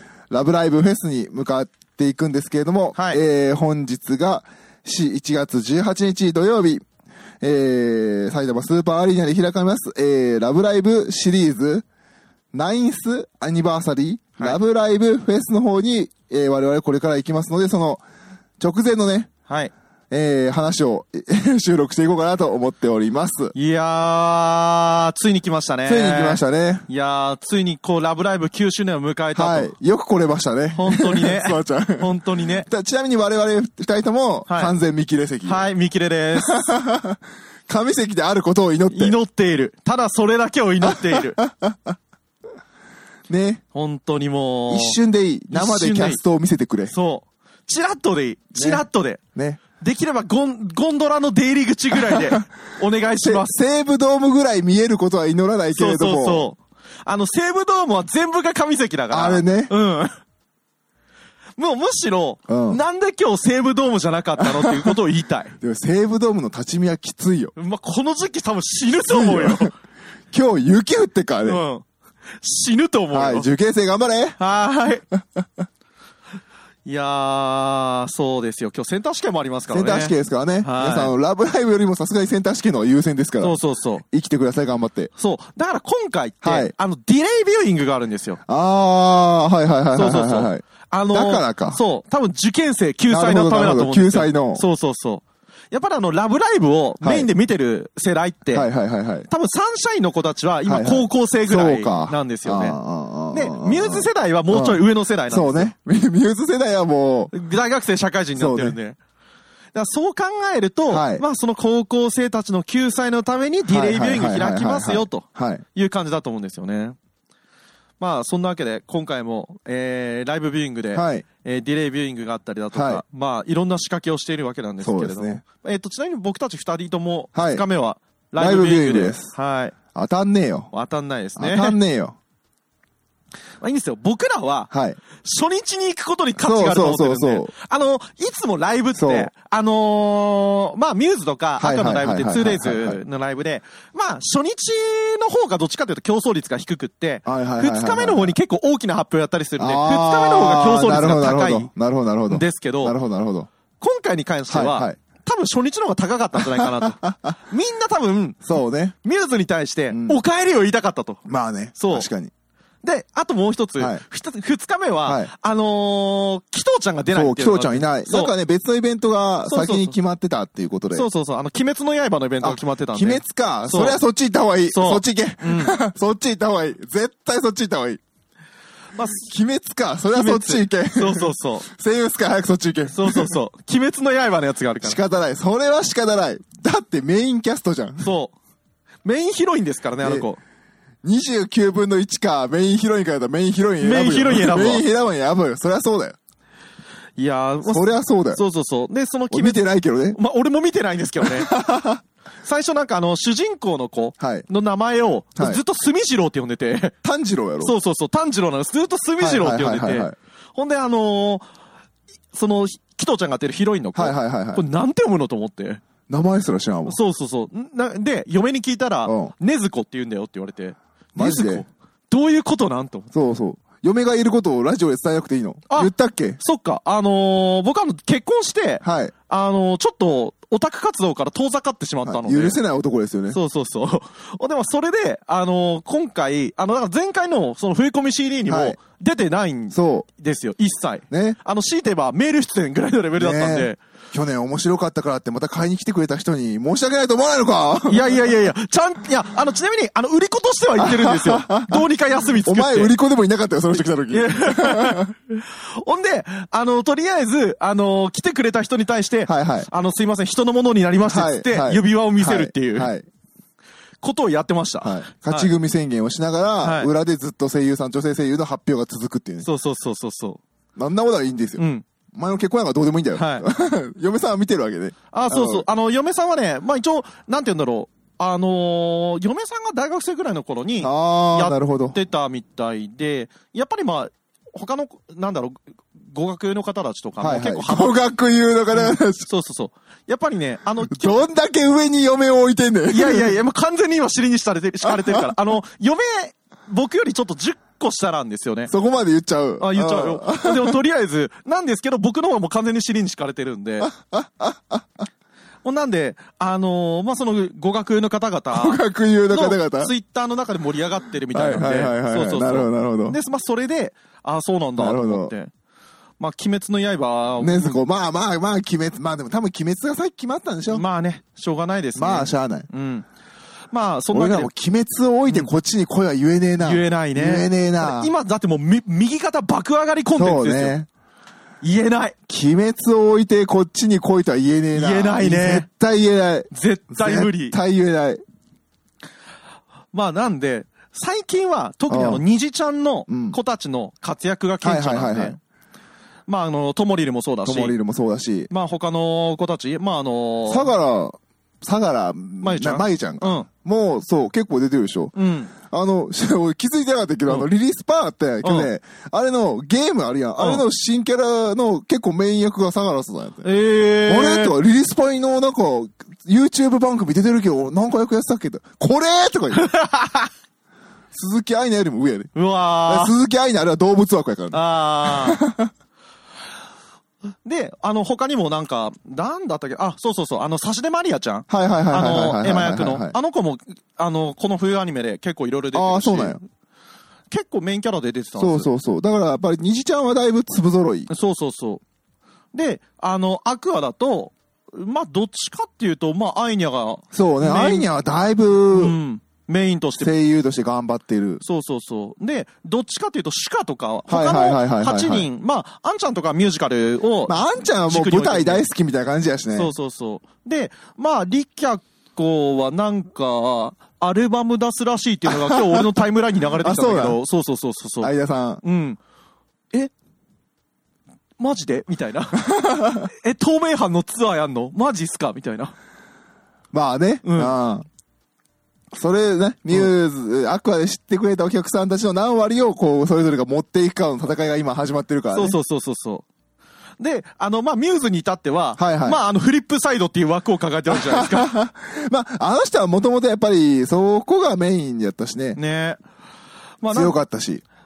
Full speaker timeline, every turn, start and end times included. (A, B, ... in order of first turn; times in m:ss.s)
0:00.3-0:06.8 A
0:02.9-0:03.2 B
0:07.4-0:11.8 A
0:12.5-0:18.0 A
0:18.6-0:19.3 A
0:20.1-0:23.5 A
0:23.5-0:29.7 B
0:25.8-0:26.8 A
0:29.3-0:35.7 A
0:30.7-0:32.7 B
0:34.5-0:34.7 B
0:35.4-0:36.7 B
0:36.5-0:39.2 A
0:38.9-0:41.4 B
0:40.8-0:42.0 A
0:43.3-0:43.6 A
0:43.7-0:45.0 B
0:44.7-0:46.9 A
0:45.5-0:46.2 B
0:46.9-0:49.2 B
0:48.6-0:48.8 A
0:49.3-0:49.6 A
0:49.8-0:53.5 B
0:52.0-0:52.4 A
0:53.2-0:56.5 A
0:55.7-1:00.1 B
0:59.1-0:59.7 A
1:01.6-1:05.5 B
1:02.5-1:02.8 A
1:04.4-1:05.0 A
1:05.6-1:07.5 A
1:07.6-1:09.7 B
1:09.1-1:09.7 A
1:10.3-1:11.6 A
1:11.4-1:11.8 B
1:12.4-1:13.5 B
1:13.1-1:14.4 A
1:14.4-1:15.0 B
1:15.1-1:15.4 A
1:16.8-1:21.1 B
1:19.7-1:25.1 A
1:23.4-1:24.0 B
1:25.2-1:28.4 B
1:26.4-1:26.7 A
1:28.4-1:31.8 A
1:29.9-1:38.7 B
1:33.1-1:34.6 A
1:37.0-1:37.3 A
1:38.5-1:39.3 A
1:39.3-1:42.8 B
1:40.6-1:47.3 A
1:43.3-1:45.7 B
1:47.3-1:49.0 B
1:48.4-1:48.8 A
1:49.7-1:57.0 B
1:50.9-1:51.2 A
1:53.7-1:55.6 A
1:58.0-2:09.8 B
2:00.9-2:01.2 A
2:02.7-2:03.0 A
2:04.8-2:05.4 A
2:07.3-2:07.6 A
2:08.4-2:09.3 A
2:09.9-2:10.7 A
2:10.7-2:11.8 B
2:11.4-2:12.2 A
2:13.6-2:31.7 B
2:14.7-2:15.0 A
2:16.4-2:17.5 A
2:19.0-2:19.3 A
2:21.6-2:23.0 A
2:27.2-2:28.4 A
2:29.6-2:33.5 A
2:32.3-2:32.9 B
2:33.8-2:38.4 B
2:34.5-2:35.0 A
2:36.4-2:37.4 A
2:38.4-2:38.9 A
2:39.0-2:41.2 B
2:39.9-2:40.2 A
2:41.2-2:42.3 A
2:41.8-2:42.1 B
2:42.8-2:48.3 B
2:43.8-2:44.0 A
2:45.0-2:45.3 A
2:47.1-2:51.1 A
2:49.4-2:49.9 B
2:50.9-2:54.0 B
2:52.4-2:58.0 A
2:54.7-2:55.8 B
2:58.9-2:59.3 B
2:59.3-3:03.4 A
3:00.1-3:01.7 B
3:02.9-3:05.0 B
3:04.8-3:08.0 A
3:08.0-3:08.3 B
3:09.0-3:10.4 B
3:11.0-3:16.2 A
3:13.8-3:14.8 B
3:17.2-3:19.6 B
3:17.6-3:18.4 A
3:19.3-3:20.2 A
3:20.1-3:21.5 B
3:21.2-3:22.0 A
3:22.4-3:26.9 B
3:24.2-3:24.5 A
3:27.0-3:27.7 A
3:27.6-3:31.4 B
3:29.2-3:30.1 A
3:32.3-3:35.8 B
3:33.9-3:34.6 A
3:36.1-3:37.0 A
3:36.8-3:43.1 B
3:39.0-3:39.3 A
3:41.2-3:41.6 A
3:43.1-3:46.4 A
3:45.7-3:52.6 B
3:48.8-3:49.1 A
3:52.0-3:53.4 A
3:53.3-4:03.8 B
3:58.5-3:58.8 A
3:59.7-4:00.1 A
4:01.1-4:01.4 A
4:03.2-4:08.3 A
4:07.9-4:12.9 B
4:10.8-4:11.8 A
4:12.4-4:15.1 A
4:14.1-4:22.9 B
4:19.3-4:19.7 A
4:21.0-4:23.0 A
4:24.0-4:25.5 B
4:24.8-4:29.5 A
4:26.6-4:26.9 B
4:29.4-4:30.4 B
4:30.8-4:35.6 A
4:31.6-4:31.8 B
4:33.1-4:33.4 B
4:35.1-4:48.0 B
4:40.8-4:42.0 A
4:47.2-4:49.3 A
4:48.7-4:51.2 B
4:50.9-4:53.3 A
4:52.9-4:58.7 B
4:54.8-4:55.2 A
4:58.7-5:00.8 A
4:59.6-5:03.9 B
5:03.8-5:05.0 A
5:05.6-5:15.5 B
5:08.5-5:09.9 A
5:11.3-5:13.2 A
5:14.8-5:15.3 A
5:16.2-5:17.8 B
5:17.4-5:20.8 A
5:20.7-5:23.0 B
5:22.0-5:22.7 A
5:23.7-5:24.5 B
5:24.1-5:28.1 A
5:26.6-5:30.8 B
5:30.2-5:30.9 A
5:31.6-5:32.2 B
5:32.3-5:38.2 A
5:34.7-5:35.7 B
5:36.5-5:37.6 B
5:39.9-5:45.4 B
5:41.9-5:42.2 A
5:43.1-5:43.4 A
5:44.6-5:45.4 A
5:46.3-5:47.7 B
5:47.4-5:48.5 A
5:48.5-5:50.7 B
5:50.5-6:03.5 A
5:52.4-5:53.5 B
5:55.1-5:55.5 B
5:58.4-5:58.7 B
6:00.4-6:00.6 B
6:03.4-6:04.6 B
6:04.0-6:09.7 A
6:09.5-6:10.3 B
6:11.1-6:12.3 A
6:12.3-6:13.1 B
6:12.8-6:15.7 A
6:14.5-6:15.4 B
6:17.4-6:26.4 B
6:21.5-6:23.2 A
6:25.7-6:26.4 A
6:27.3-6:28.7 B
6:28.4-6:31.1 A
6:31.1-6:31.8 B
6:32.5-6:37.9 B
6:37.1-6:39.0 A
6:38.7-6:40.1 B
6:40.0-6:41.4 A
6:41.4-6:48.6 B
6:44.1-6:45.3 A
6:47.3-6:49.7 A
6:49.5-6:59.0 B
6:55.3-6:55.8 A
6:56.6-6:57.2 A
6:58.0-6:58.6 A
7:01.4-7:02.5 B
7:02.4-7:03.1 A
7:03.0-7:05.7 B
7:06.7-7:07.8 A
7:07.2-7:07.5 B
7:08.9-7:15.6 A
7:15.3-7:16.2 B
7:17.0-7:21.5 B
7:18.8-7:19.2 A
7:20.9-7:25.6 A
7:25.5-7:26.0 B
7:26.8-7:27.2 B
7:26.9-7:27.6 A